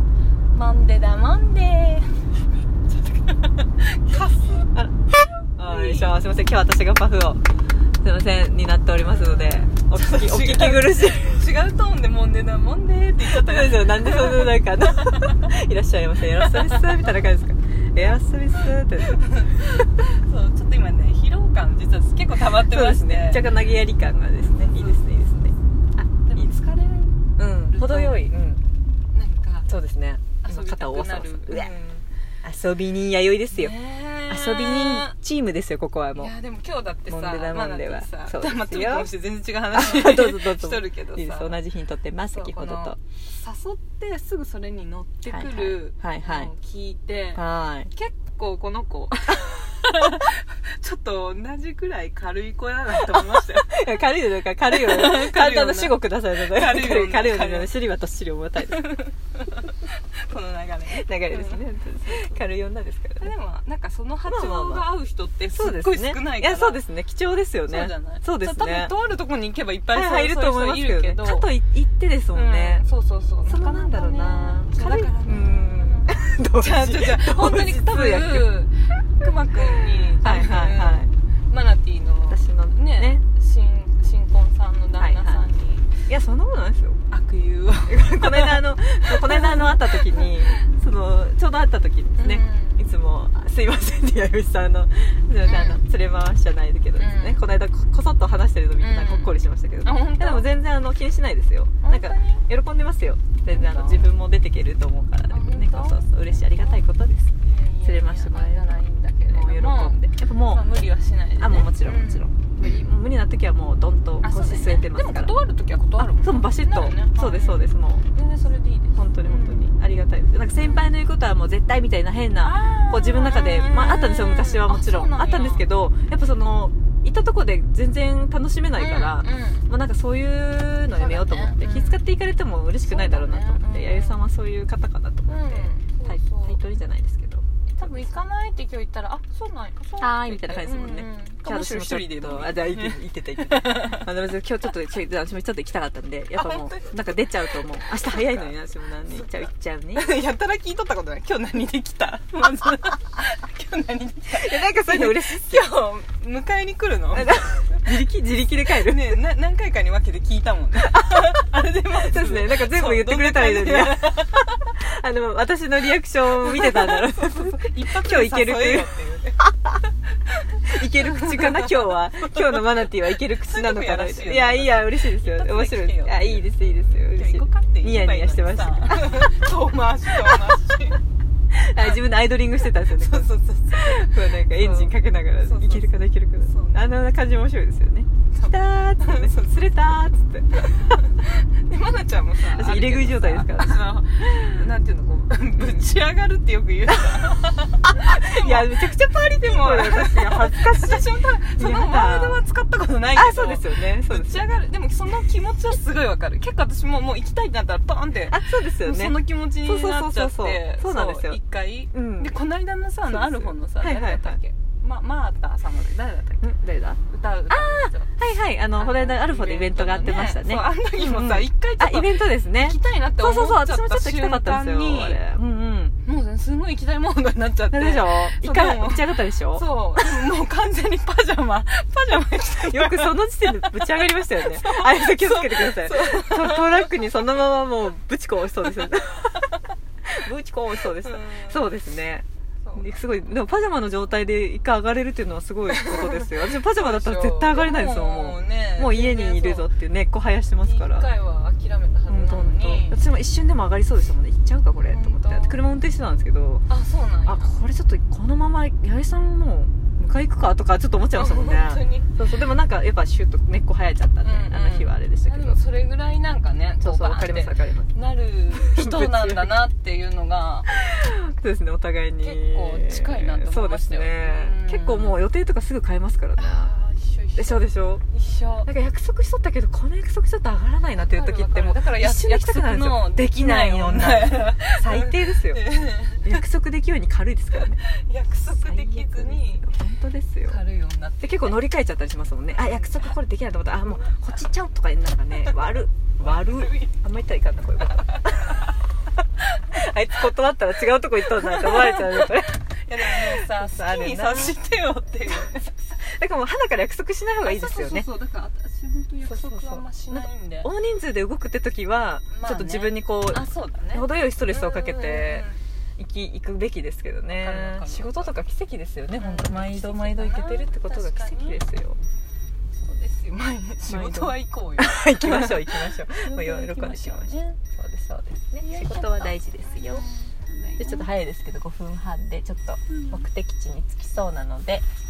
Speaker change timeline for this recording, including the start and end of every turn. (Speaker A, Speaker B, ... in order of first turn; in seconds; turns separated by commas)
Speaker A: 0.5-2.2, Speaker A: 2.8-4.7, Speaker B: 4.7-7.4, Speaker A: 5.6-6.2, Speaker B: 8.0-11.4, Speaker A: 9.0-15.4, Speaker B: 13.2-19.3, Speaker A: 16.3-17.1, Speaker A: 19.0-23.5, Speaker B: 22.5-26.5, Speaker A: 24.5-25.1, Speaker A: 26.2-28.2, Speaker B: 27.4-28.6, Speaker A: 29.1-29.7, Speaker B: 29.7-31.7, Speaker A: 30.4-32.0, Speaker B: 32.4-33.7, Speaker A: 33.5-35.2, Speaker B: 34.3-36.3, Speaker A: 36.2-41.6, Speaker B: 37.1-39.1, Speaker B: 39.7-43.0, Speaker A: 42.3-54.0, Speaker B: 45.2-46.5, Speaker B: 47.3-47.9, Speaker B: 53.0-58.9, Speaker A: 54.6-57.7, Speaker A: 58.7-62.5, Speaker B: 60.9-63.3, Speaker A: 63.2-66.8, Speaker B: 64.3-64.9, Speaker B: 65.5-69.0, Speaker A: 67.7-71.5, Speaker B: 69.9-72.8, Speaker A: 72.3-86.0, Speaker B: 73.5-78.6, Speaker B: 79.6-81.1, Speaker B: 82.3-83.2, Speaker B: 85.0-85.5, Speaker B: 86.1-87.0, Speaker A: 87.1-90.7, Speaker B: 87.9-110.7, Speaker A: 92.2-92.8, Speaker A: 95.4-95.8, Speaker A: 97.0-97.4, Speaker A: 98.8-100.5, Speaker A: 101.8-102.5, Speaker A: 103.5-104.1, Speaker A: 105.3-106.8, Speaker A: 107.4-112.3, Speaker B: 111.4-115.4, Speaker A: 114.2-119.7, Speaker B: 116.0-118.1, Speaker B: 119.0-138.2, Speaker A: 120.6-120.8, Speaker A: 122.4-125.7, Speaker A: 128.8-129.7, Speaker A: 130.9-132.0, Speaker A: 132.8-134.3, Speaker A: 135.3-136.6, Speaker A: 137.7-144.1, Speaker B: 140.0-150.2, Speaker A: 146.4-148.5, Speaker A: 149.1-149.4, Speaker A: 149.9-157.9, Speaker B: 154.3-155.7, Speaker B: 157.1-159.2, Speaker A: 158.7-164.8, Speaker B: 160.8-169.8, Speaker A: 166.3-169.5, Speaker A: 170.4-181.0, Speaker B: 170.6-179.2, Speaker B: 181.5-191.0, Speaker A: 182.6-186.8, Speaker A: 188.3-189.9, Speaker A: 190.5-216.5, Speaker B: 192.4-194.5, Speaker B: 195.6-195.8, Speaker B: 197.9-202.4, Speaker B: 203.1-204.5, Speaker B: 208.3-211.4, Speaker B: 211.9-212.4, Speaker B: 213.1-214.4, Speaker B: 216.4-226.0, Speaker A: 217.1-218.2, Speaker A: 218.7-225.2, Speaker A: 226.1-237.1, Speaker B: 227.7-229.7, Speaker B: 232.6-251.1, Speaker A: 241.0-241.7, Speaker A: 242.6-243.0, Speaker A: 245.7-249.7, Speaker A: 250.6-253.0, Speaker B: 252.1-256.6, Speaker A: 254.8-255.6, Speaker A: 256.7-257.6, Speaker B: 257.2-265.6, Speaker A: 261.1-262.1, Speaker A: 264.2-270.7, Speaker B: 266.8-267.9, Speaker B: 268.5-269.6, Speaker B: 270.7-276.8, Speaker A: 272.2-275.2, Speaker A: 276.4-278.7, Speaker B: 277.4-278.0, Speaker B: 278.6-285.7, Speaker A: 281.0-286.4, Speaker B: 286.2-287.8, Speaker A: 287.6-289.7, Speaker B: 288.5-290.6, Speaker A: 290.5-291.6, Speaker B: 291.2-298.6, Speaker A: 292.5-293.2, Speaker A: 296.2-297.0, Speaker A: 298.1-298.7, Speaker B: 299.7-304.6, Speaker A: 301.4-305.9, Speaker B: 306.0-308.1, Speaker A: 307.4-310.7, Speaker B: 309.2-322.0, Speaker A: 312.3-315.6, Speaker A: 317.3-318.3, Speaker A: 319.2-321.6, Speaker A: 322.7-327.6, Speaker B: 323.9-330.1, Speaker A: 328.6-331.1, Speaker B: 330.8-334.9, Speaker A: 332.9-333.2